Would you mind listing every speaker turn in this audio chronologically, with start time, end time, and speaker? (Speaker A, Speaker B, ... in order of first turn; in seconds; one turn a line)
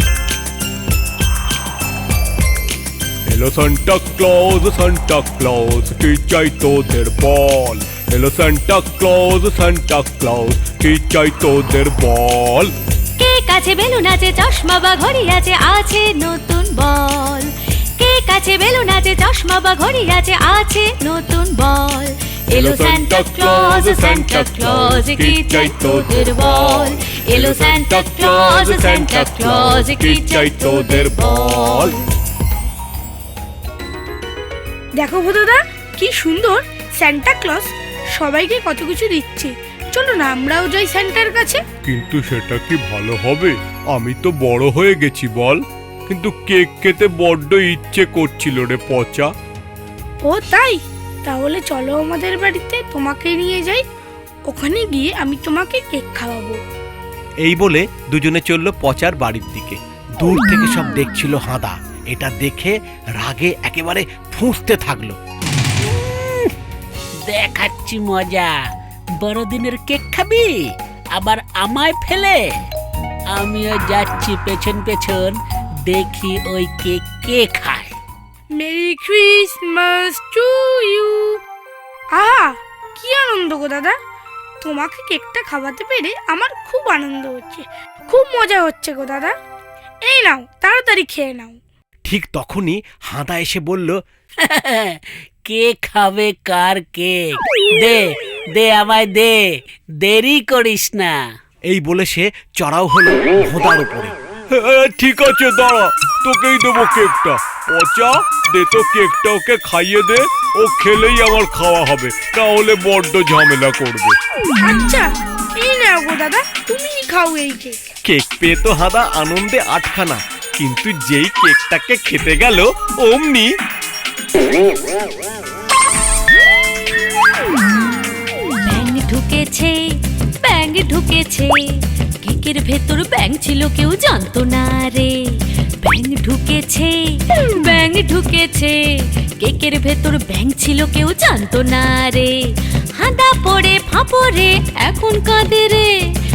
Speaker A: 3.3-12.7
Speaker B: 13.2-32.0
Speaker A: 22.5-31.9
Speaker C: 35.0-41.6
Speaker A: 41.8-49.3
Speaker C: 50.2-53.8
Speaker C: 54.5-56.6
Speaker D: 57.4-65.2
Speaker E: 65.8-66.5
Speaker E: 67.2-68.6
Speaker E: 69.2-72.4
Speaker E: 73.3-77.9
Speaker C: 78.5-81.4
Speaker C: 82.1-84.0
Speaker C: 84.6-89.3
Speaker C: 90.0-91.6
Speaker D: 92.0-94.0
Speaker E: 94.4-99.5
Speaker E: 100.0-101.2
Speaker D: 101.7-104.1
Speaker A: 104.5-114.2
Speaker C: 114.6-115.1
Speaker C: 115.6-117.8
Speaker D: 118.0-123.5
Speaker B: 128.6-142.4
Speaker B: 142.9-146.1